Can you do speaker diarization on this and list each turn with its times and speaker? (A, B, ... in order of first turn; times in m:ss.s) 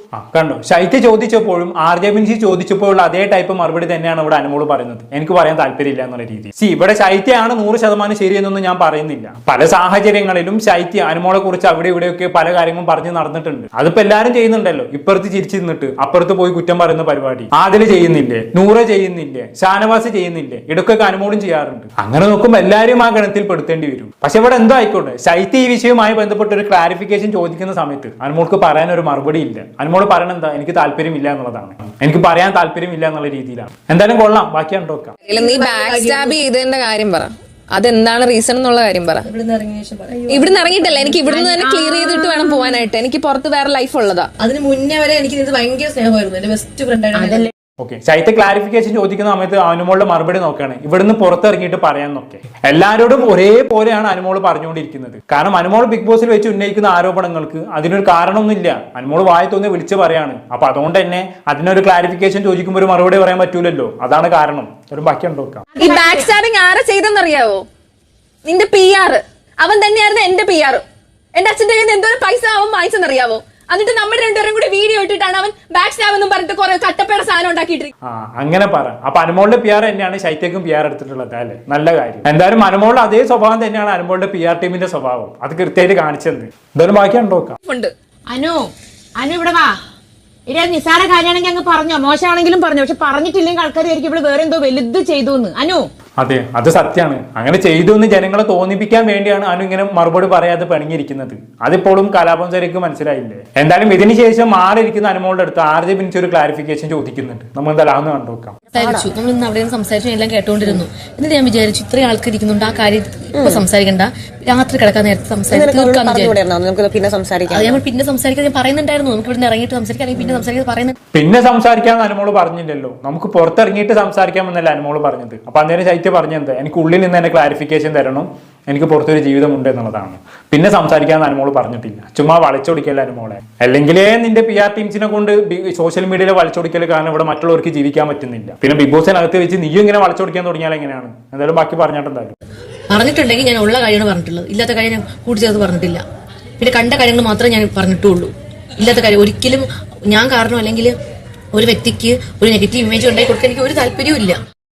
0:00.2-0:35.2 A
0:35.2-0:39.3 B
0:35.3-0:36.4 C
0:39.2-0:41.1 C
0:40.3-0:44.3 B
0:41.3-0:42.8 D
0:44.4-0:47.5 C
0:47.2-0:47.5 D
0:47.8-1:05.6 A
1:05.8-1:06.3 D
1:05.8-1:07.6 B
1:08.5-1:10.8 B
1:11.4-1:17.9 B
1:18.0-1:27.6 A
1:27.7-1:27.9 B
1:28.3-1:29.8 D
1:30.5-1:35.9 D
1:36.2-1:48.6 A
1:48.7-1:56.4 C
1:48.8-1:49.1 E
1:53.4-1:53.6 E
1:55.5-1:57.8 E
1:57.5-2:01.0 C
2:00.2-2:00.4 E
2:01.1-2:22.4 A
2:22.9-2:26.0 C
2:26.6-2:30.9 C
2:31.5-2:34.4 C